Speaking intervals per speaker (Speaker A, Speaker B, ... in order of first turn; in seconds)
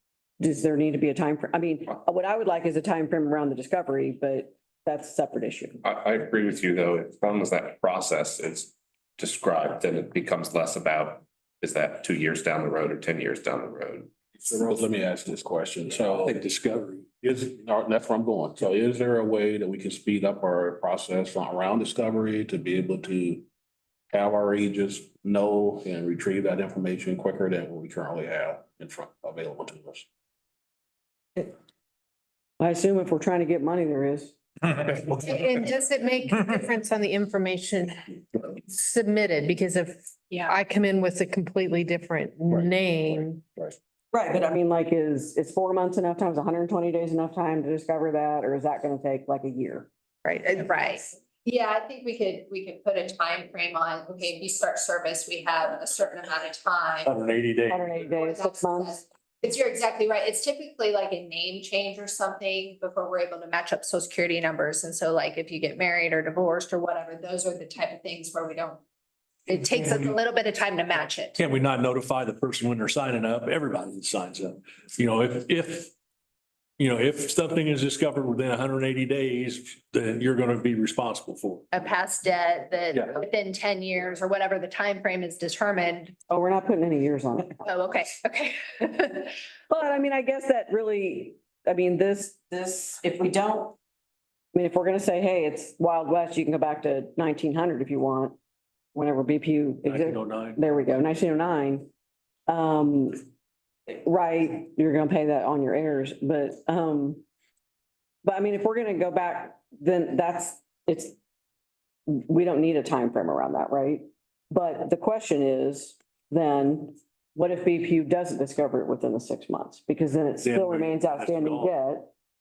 Speaker A: 0.4-5.8, 32.6-35.2, 44.1-49.9, 57.7-59.0, 86.3-87.6, 89.7-93.8, 94.5-98.3, 98.9-101.9, 102.5-103.2, 103.9-107.2, 108.2-111.2, 112.1-122.1
Speaker B: 5.8-14.1
Speaker C: 14.4-16.4, 17.2-23.4, 24.1-30.1
Speaker D: 16.1-17.0, 57.0-58.0, 69.7-70.2, 71.4-75.9, 76.8-81.6, 99.8-100.6, 120.4-121.8
Speaker E: 35.2-35.5, 40.3-40.5, 50.3-57.2, 58.0-68.8, 69.5-71.4, 81.7-86.2, 87.6-89.3
Speaker F: 35.3-43.5